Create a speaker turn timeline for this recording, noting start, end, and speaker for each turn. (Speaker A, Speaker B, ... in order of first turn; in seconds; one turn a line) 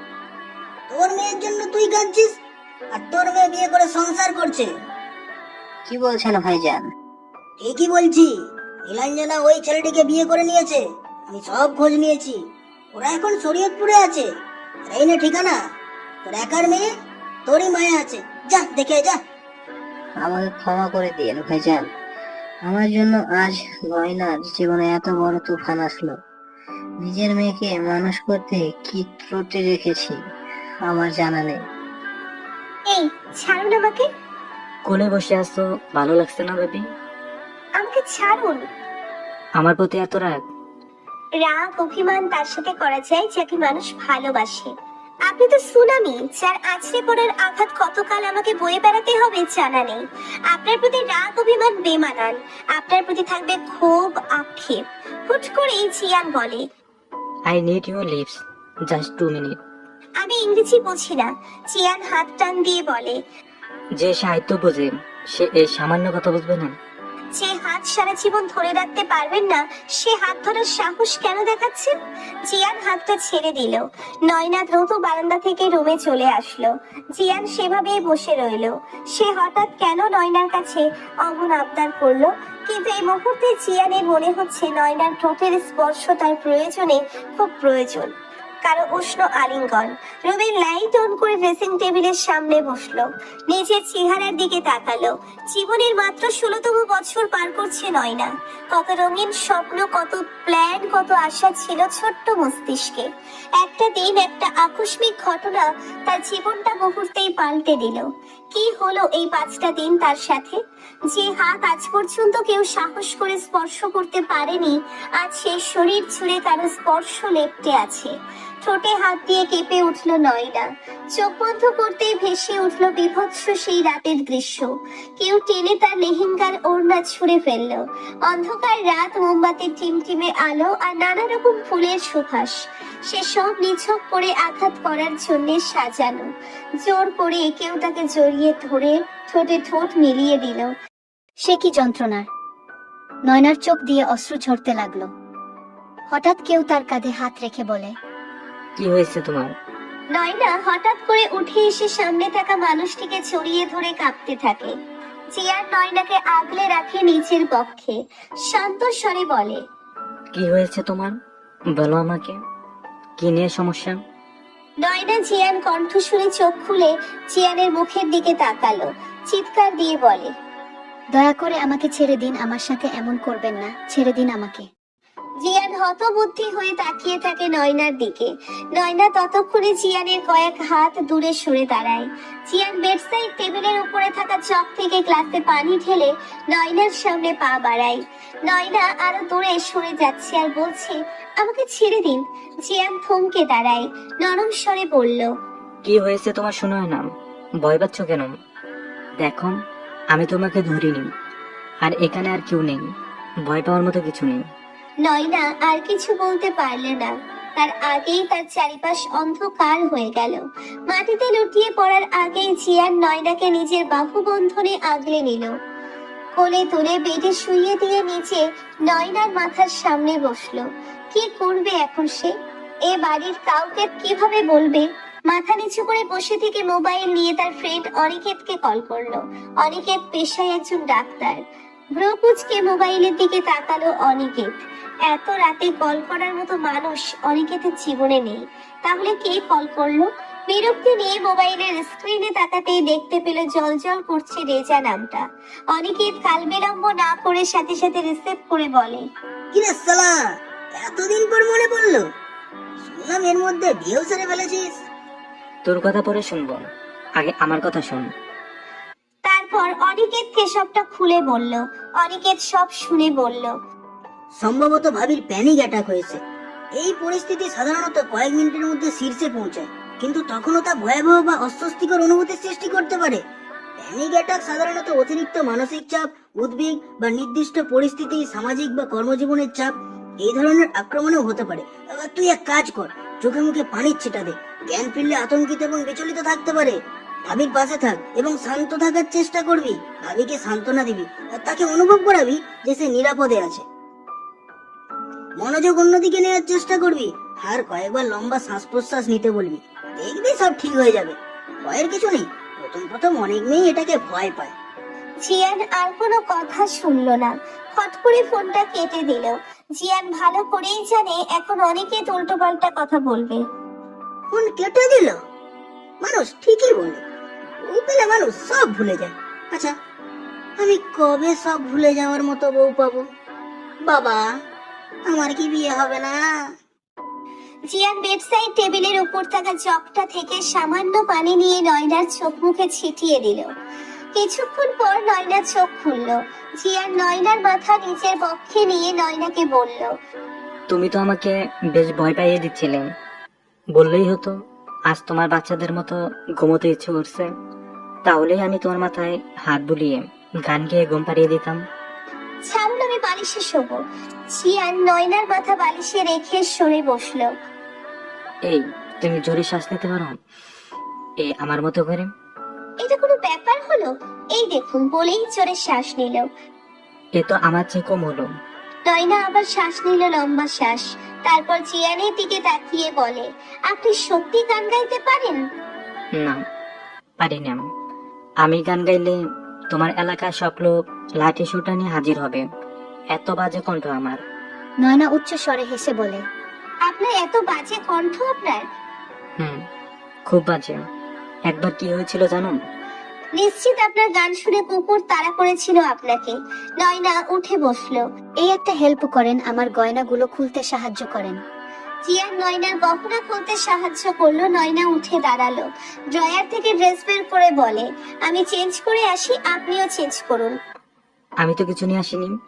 Speaker A: 0.9-2.3
Speaker A: 2.9-4.7
Speaker B: 5.9-6.9
Speaker A: 7.6-8.3
Speaker A: 8.8-12.4
Speaker A: 12.9-14.3
Speaker A: 14.9-15.6
Speaker A: 16.2-16.9
Speaker A: 17.5-19.2
Speaker B: 20.2-21.8
Speaker B: 22.6-26.1
Speaker B: 27.0-30.1
Speaker B: 30.8-31.6
Speaker C: 32.9-34.1
Speaker D: 34.9-36.8
Speaker C: 37.8-38.6
Speaker D: 39.6-40.4
Speaker C: 41.4-44.7
Speaker C: 45.3-56.6
Speaker D: 57.5-59.6
Speaker C: 60.2-63.2
Speaker D: 64.0-66.8
Speaker C: 67.3-71.9
Speaker C: 72.5-88.1
Speaker C: 88.6-118.1
Speaker C: 118.6-124.7
Speaker C: 125.2-140.7
Speaker E: 141.4-142.3
Speaker E: 143.3-145.1
Speaker E: 146.1-147.9
Speaker D: 148.8-149.5
Speaker C: 150.1-154.7
Speaker C: 155.3-159.6
Speaker D: 160.3-161.2
Speaker D: 161.7-162.4
Speaker D: 163.2-164.0
Speaker C: 164.8-170.3
Speaker E: 171.1-174.7
Speaker C: 175.4-195.3
Speaker D: 195.8-197.1
Speaker D: 197.6-198.3
Speaker D: 199.2-199.6
Speaker D: 200.1-201.1
Speaker D: 201.8-202.9
Speaker D: 203.4-204.4
Speaker C: 205.0-215.5
Speaker C: 216.4-222.3
Speaker C: 222.9-231.4
Speaker C: 231.9-234.5
Speaker C: 235.1-249.0
Speaker A: 249.5-250.2
Speaker A: 250.8-252.1
Speaker A: 252.8-254.8
Speaker D: 255.6-256.6
Speaker D: 257.2-258.1
Speaker C: 259.2-263.5
Speaker A: 264.4-266.2
Speaker A: 266.8-273.2
Speaker A: 273.8-293.6
Speaker A: 295.4-304.5
Speaker C: 305.2-313.4
Speaker A: 314.3-315.2
Speaker A: 316.0-317.0
Speaker A: 317.6-319.7
Speaker A: 320.6-323.1
Speaker A: 323.9-324.2
Speaker A: 325.1-326.2
Speaker C: 327.7-333.5
Speaker C: 334.1-339.9
Speaker D: 340.7-342.9
Speaker D: 343.7-344.4
Speaker D: 344.9-347.3
Speaker D: 348.1-351.6
Speaker C: 352.4-353.8
Speaker C: 354.3-357.3
Speaker D: 358.5-360.2
Speaker D: 361.2-362.1
Speaker C: 362.8-366.2
Speaker D: 367.1-368.3
Speaker C: 368.9-375.4
Speaker D: 376.2-376.4
Speaker D: 377.2-377.6
Speaker D: 378.4-379.2
Speaker D: 379.7-382.4
Speaker D: 383.1-384.2
Speaker E: 384.8-386.2
Speaker C: 386.9-388.6
Speaker D: 389.4-389.6
Speaker D: 390.3-390.8
Speaker D: 391.5-392.6
Speaker C: 393.4-398.0
Speaker E: 398.4-401.4
Speaker C: 402.1-410.6
Speaker D: 411.4-412.3